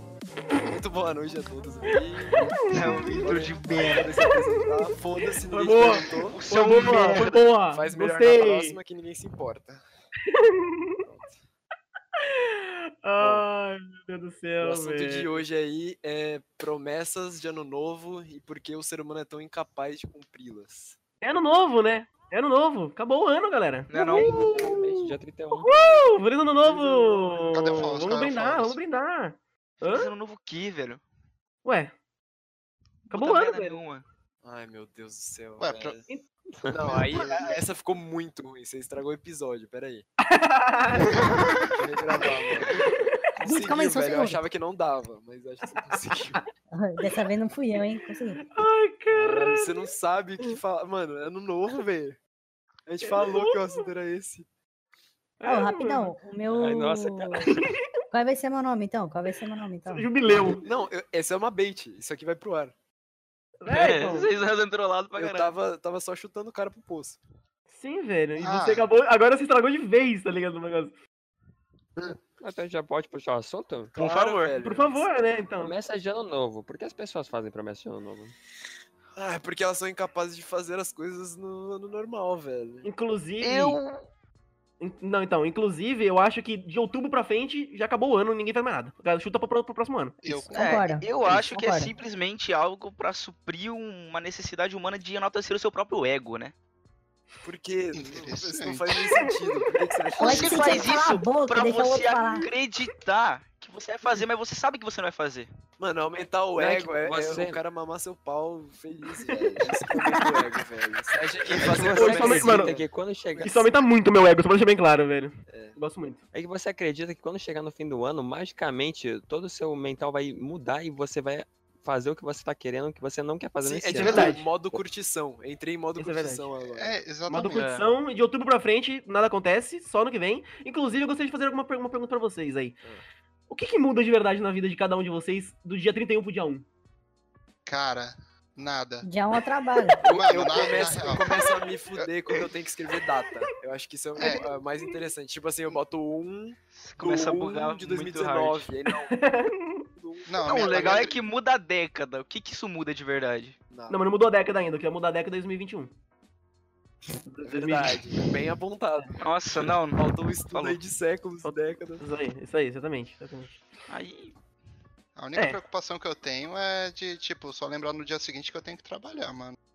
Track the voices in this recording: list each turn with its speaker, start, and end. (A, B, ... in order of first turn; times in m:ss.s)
0:00.7-0:06.4 A
0:01.9-0:03.2 B
0:02.6-0:04.1 C
0:04.2-0:05.0 B
0:05.5-0:08.8 B
0:06.1-0:07.5 C
0:07.7-0:09.8 A
0:10.3-0:11.0 B
0:11.0-0:11.3 A
0:12.2-0:15.3 B
0:13.2-0:13.4 A
0:14.6-0:21.0 A
0:21.2-0:30.1 B
0:23.9-0:24.4 C
0:24.2-0:25.8 D
0:26.6-0:27.5 A
0:27.5-0:28.8 E
0:29.8-0:31.0 C
0:31.6-0:31.9 B
0:33.1-0:33.8 B
0:33.1-0:34.0 C
0:34.4-0:36.0 A
0:35.6-0:36.0 E
0:36.6-0:37.0 D
0:36.7-0:40.0 A
0:36.8-0:37.6 E
0:40.2-0:41.1 B
0:41.8-0:42.8 A
0:43.4-0:46.5 A
0:43.4-0:44.4 F
0:46.7-0:48.4 F
0:48.0-0:49.7 B
0:49.1-0:52.2 A
0:52.9-0:54.5 A
0:53.0-0:53.9 B
0:55.4-0:56.2 B
0:55.4-0:57.6 F
0:56.5-0:57.6 D
0:58.1-1:00.6 F
0:59.9-1:00.6 B
1:00.5-1:02.7 A
1:03.6-1:04.3 B
1:03.7-1:05.6 C
1:05.2-1:07.2 A
1:07.7-1:10.9 B
1:08.4-1:08.9 E
1:12.4-1:14.0 D
1:14.0-1:15.1 A
1:14.0-1:14.6 C
1:14.6-1:15.8 B
1:15.6-1:18.4 D
1:19.2-1:22.9 A
1:22.8-1:23.8 B
1:23.4-1:24.0 C
1:24.8-1:30.2 B
1:30.2-1:31.3 E
1:30.3-1:31.9 F
1:30.5-1:36.5 C
1:37.4-1:40.9 A
1:37.9-1:39.3 E
1:40.2-1:42.5 F
1:40.2-1:45.5 C
1:45.8-1:53.4 A
1:46.6-1:47.6 D
1:49.9-1:50.3 B
1:51.6-1:53.7 D
1:51.8-1:52.8 B
1:53.4-1:56.2 B
1:55.5-1:55.8 A
1:56.3-2:04.8 D
2:03.6-2:07.0 A
2:03.9-2:04.4 B
2:06.0-2:06.5 B
2:06.8-2:07.7 E
2:07.3-2:12.8 B
2:07.5-2:07.9 C
2:13.5-2:16.7 B
2:17.7-2:19.1 E
2:19.0-2:20.1 F
2:20.0-2:29.2 A
2:20.1-2:21.2 E
2:24.2-2:24.4 E
2:24.2-2:24.6 B
2:26.8-2:28.7 C
2:29.1-2:29.8 B
2:30.0-2:30.5 A
2:30.3-2:31.2 E
2:30.4-2:33.6 C
2:33.7-2:34.0 A
2:33.9-2:35.9 B
2:37.2-2:38.0 B
2:37.4-2:42.0 A
2:39.2-2:40.8 C
2:41.4-2:43.6 B
2:43.9-2:44.4 C
2:45.2-2:49.6 E